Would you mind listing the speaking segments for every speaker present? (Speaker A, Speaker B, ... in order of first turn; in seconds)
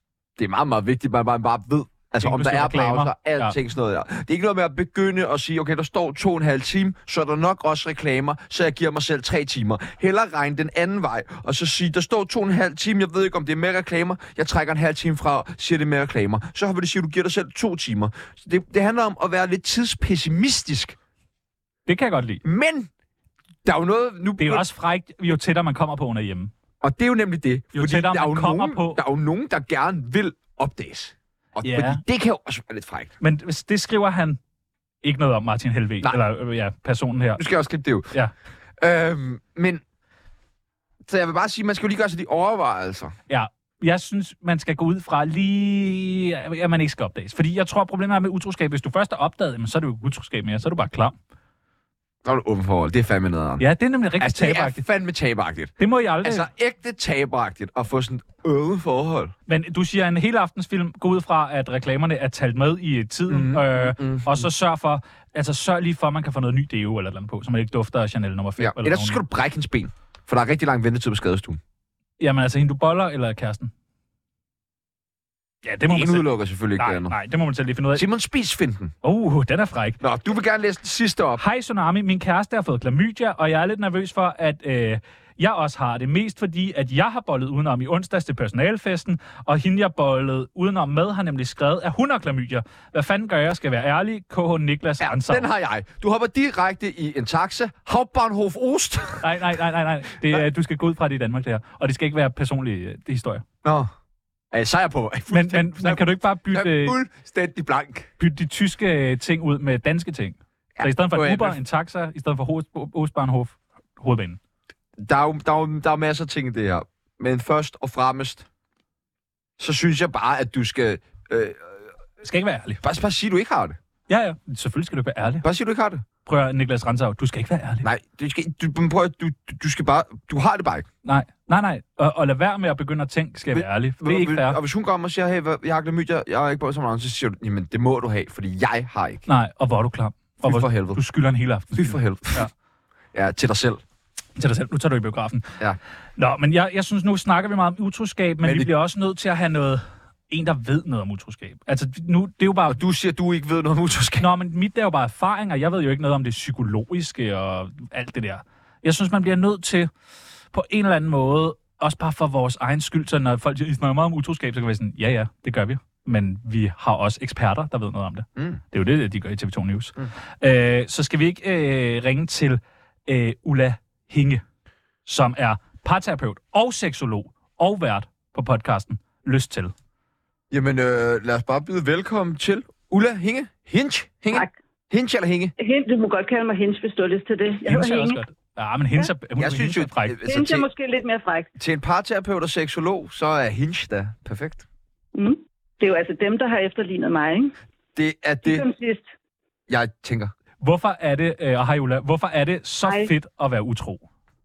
Speaker A: 0.4-21.0, 22.4-22.9, 23.6-24.6, 26.8-33.1, 37.4-38.1, 38.8-39.8, 41.1-43.1, 52.2-53.6, 54.2-59.3, 63.3-64.5, 68.6-71.6, 75.9-77.2, 78.0-78.9, 80.0-81.4, 95.0-99.4, 103.6-103.9, 104.5-108.1, 110.8-111.6, 115.0-118.5, 119.6-121.9, 122.8-123.8, 125.4-126.0, 127.8-130.9, 133.5-139.2, 140.4-141.0, 141.8-142.5, 143.1-143.8, 148.4-148.7, 152.7-154.3, 180.5-185.5, 189.4-190.7, 191.6-194.7, 198.0-198.7, 199.7-200.3
Speaker B: 2.2-3.5, 21.9-22.4, 24.4-26.5, 27.7-29.0, 31.6-32.0, 33.2-34.4, 35.0-37.4, 43.3-51.1, 53.6-54.8, 55.8-56.5, 59.5-69.2, 72.2-73.7, 75.6-78.0, 79.0-80.0, 81.4-95.5, 99.2-103.5, 105.3-107.0, 108.2-114.4, 122.2-122.8, 124.1-125.5, 126.3-127.9, 131.1-134.6, 139.3-142.5, 144.4-145.5, 146.2-152.8, 154.2-159.9, 160.5-174.4, 175.1-179.7, 187.7-190.2, 200.6-204.0
Speaker C: 185.6-188.2, 190.2-191.5, 195.1-197.6, 198.4-199.1, 202.8-203.1